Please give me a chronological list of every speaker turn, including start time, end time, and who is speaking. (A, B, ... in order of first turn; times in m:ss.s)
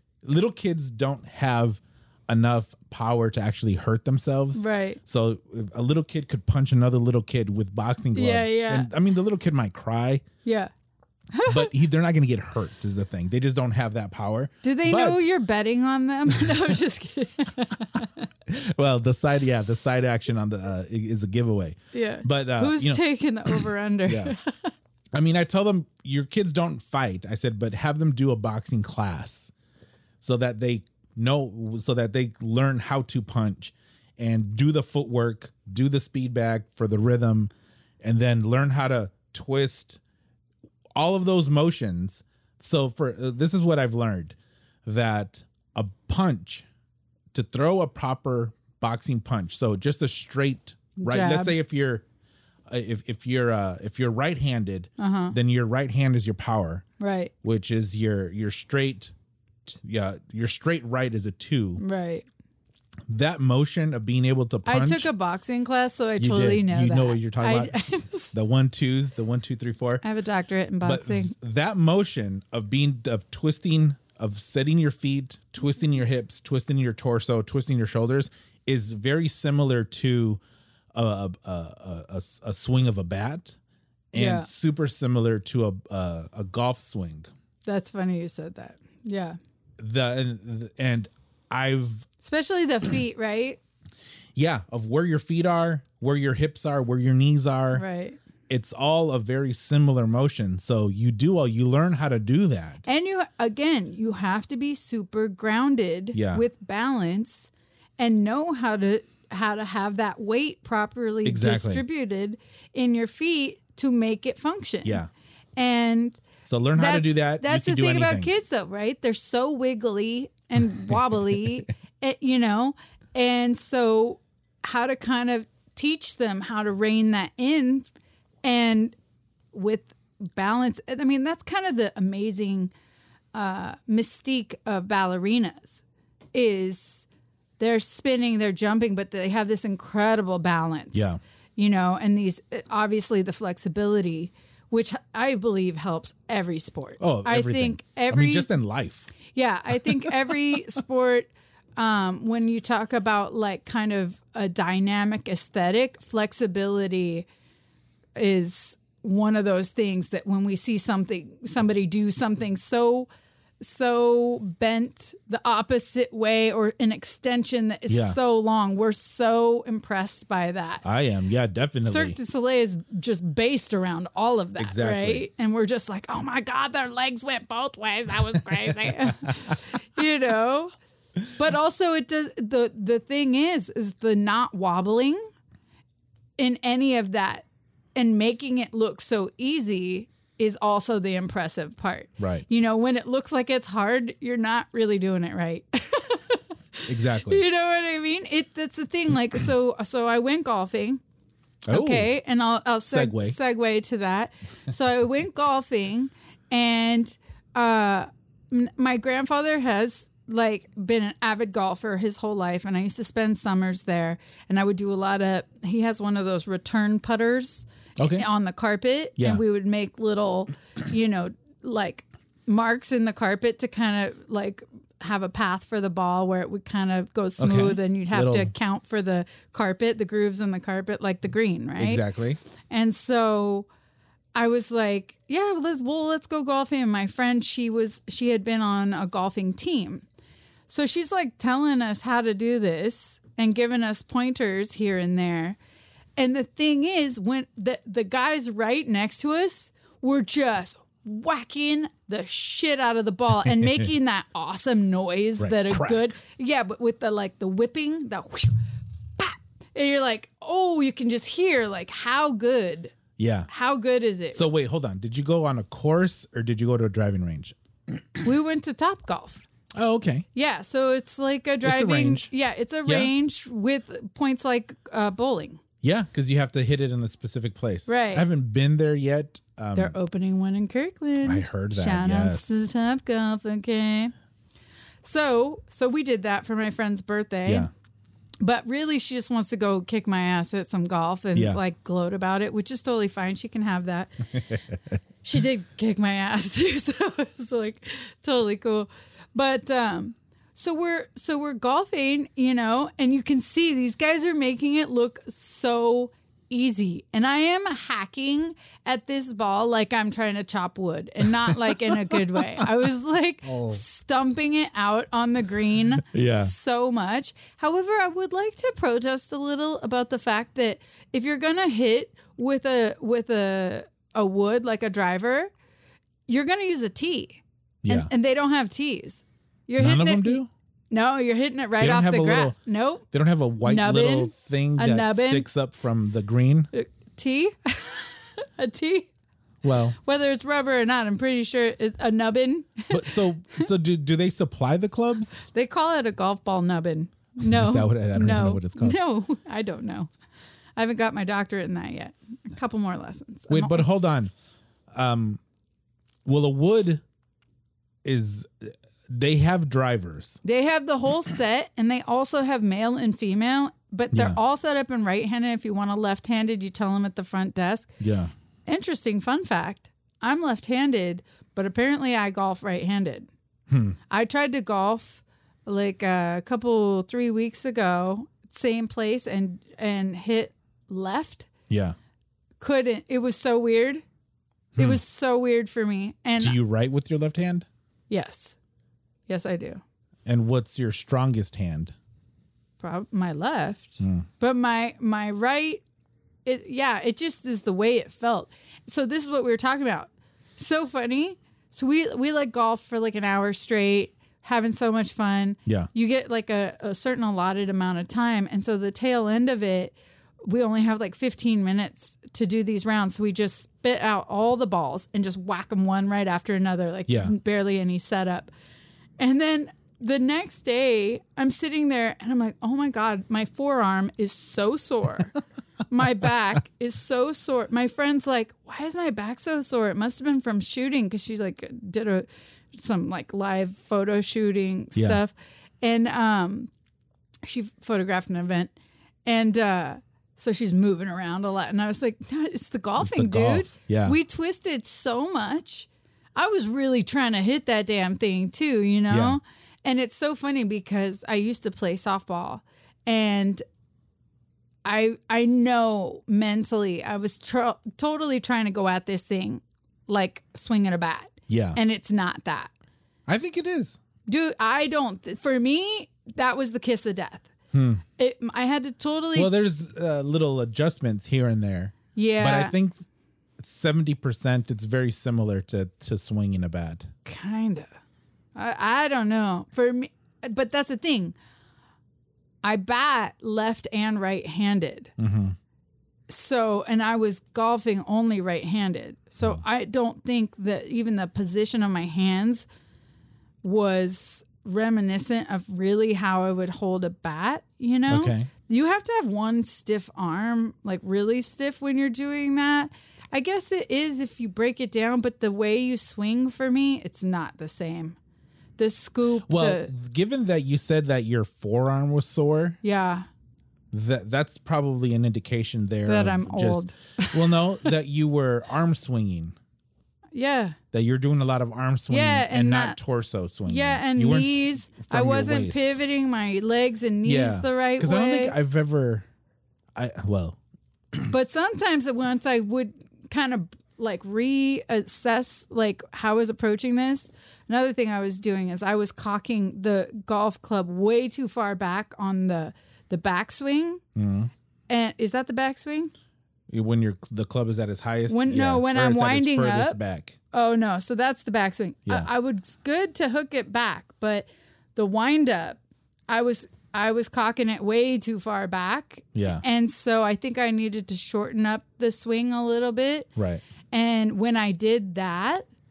0:00.2-0:10.2 A
0:04.6-0:05.0 B
0:08.1-0:08.9 B
0:10.4-0:10.7 B
0:11.3-0:11.7 B
0:11.5-0:15.2 A
0:14.6-0:18.3 B
0:18.5-0:24.3 A
0:21.9-0:24.7 B
0:25.1-0:29.5 A
0:30.2-0:37.5 A
0:38.0-0:40.0 A
0:41.0-0:46.7 A
0:47.3-0:52.0 A
0:51.0-0:51.6 B
0:52.7-0:56.8 A
0:55.0-0:55.4 B
0:57.0-0:57.3 B
0:57.4-0:59.1 A
0:59.7-1:01.8 A
1:01.8-1:02.3 B
1:03.1-1:05.1 A
1:04.6-1:08.3 B
1:06.2-1:07.7 A
1:08.3-1:10.0 A
1:10.0-1:11.3 B
1:10.8-1:20.4 A
1:20.9-1:23.6 A
1:24.1-1:27.3 A
1:24.1-1:24.5 B
1:27.7-1:29.4 B
1:29.8-1:32.1 A
1:32.2-1:33.6 B
1:34.4-1:37.8 A
1:37.7-1:38.2 B
1:38.5-1:42.8 A
1:42.8-1:55.0 B
1:46.1-1:46.4 A
1:51.2-1:51.8 A
1:54.8-1:55.1 A
1:55.6-2:07.9 B
1:56.4-1:58.3 A
2:08.4-2:09.0 B
2:09.5-2:12.7 B
2:13.3-2:17.1 B
2:17.6-2:28.5 B
2:20.9-2:21.2 A
2:27.0-2:29.1 A
2:29.3-2:37.3 B
2:29.7-2:30.3 A
2:38.2-2:43.1 B
2:43.6-2:50.8 B
2:47.9-2:48.2 A
2:50.8-2:52.2 A
2:51.8-3:00.7 B
2:54.6-2:55.2 A
3:01.3-3:05.2 B
3:06.4-3:21.0 B
3:12.2-3:12.4 A
3:16.9-3:17.4 A
3:21.7-3:22.1 A
3:21.7-3:52.0 B
3:22.9-3:23.4 A
3:38.0-3:38.3 A
3:47.4-3:48.5 A
3:51.8-3:52.4 A
3:52.7-3:53.7 B
3:54.4-4:00.0 B
4:00.7-4:05.6 B
4:06.2-4:18.6 B
4:15.4-4:16.1 A
4:19.2-4:23.0 B
4:23.2-4:23.5 A
4:23.5-4:24.5 B
4:24.4-4:27.6 A
4:28.2-4:29.4 B
4:29.8-4:30.2 A
4:30.3-4:35.6 B
4:31.6-4:32.3 A
4:32.8-4:33.1 A
4:35.8-4:40.0 A
4:37.9-4:38.3 B
4:39.8-4:44.1 B
4:41.2-4:42.4 A
4:45.0-4:47.7 B
4:48.4-4:54.5 B
4:51.4-4:51.6 A
4:54.5-4:54.8 A
4:55.2-5:25.5 B
5:11.5-5:12.7 A
5:13.5-5:13.8 A
5:16.1-5:16.5 A
5:26.3-5:33.0 B
5:27.8-5:28.1 A
5:29.8-5:30.5 A
5:31.8-5:32.6 A
5:33.1-5:36.7 A
5:33.6-5:35.5 B
5:36.7-5:39.1 B
5:39.6-5:40.0 A
5:40.0-5:43.7 B
5:42.9-5:45.4 A
5:45.5-5:50.1 B
5:47.4-5:49.0 A
5:50.8-5:53.9 B
5:53.5-5:54.3 A
5:54.9-5:55.4 A
5:56.3-5:57.0 A
5:58.0-6:00.4 A
6:00.4-6:07.9 B
6:08.0-6:08.3 A
6:08.7-6:13.3 B
6:13.7-6:14.0 A
6:14.1-6:21.5 B
6:21.7-6:22.0 A
6:22.6-6:24.0 B
6:24.8-6:25.0 A
6:24.8-6:26.6 B
6:26.4-6:27.7 A
6:28.1-6:28.6 B
6:29.3-6:29.8 B
6:30.3-6:32.0 A
6:32.8-6:35.8 B
6:34.0-6:34.3 A
6:36.5-6:58.5 B
6:57.1-6:57.3 A
6:59.2-7:05.4 B
7:05.9-7:16.7 B
7:15.0-7:15.2 A
7:17.4-7:18.7 B
7:19.3-7:33.6 B
7:23.0-7:24.2 A
7:29.1-7:29.4 A
7:34.8-7:42.7 B
7:41.5-7:41.8 A
7:43.3-7:44.0 A
7:44.3-7:47.5 B
7:47.7-7:48.0 A
7:48.2-7:49.5 B
7:49.4-7:53.0 A
7:52.2-7:52.7 B
7:53.6-7:57.1 A
7:57.2-7:57.9 B
7:58.6-8:01.4 B
8:02.6-8:05.1 B
8:05.2-8:05.6 A
8:06.3-8:12.7 B
8:13.6-8:28.2 B
8:18.1-8:18.5 A
8:28.8-8:29.9 B
8:29.5-8:32.8 A
8:32.8-8:33.3 B
8:33.9-8:39.6 A
8:36.0-8:37.9 B
8:40.4-8:40.8 B
8:40.9-8:46.0 A
8:42.1-8:43.0 B
8:43.7-8:48.6 B
8:47.2-8:49.3 A
8:50.0-8:50.6 A
8:51.3-9:04.0 B
9:04.2-9:04.5 A
9:04.9-9:06.1 B
9:06.7-9:10.4 A
9:08.3-9:10.0 B
9:10.5-9:23.3 B
9:19.4-9:19.6 A
9:23.4-9:23.6 A
9:23.9-9:25.7 B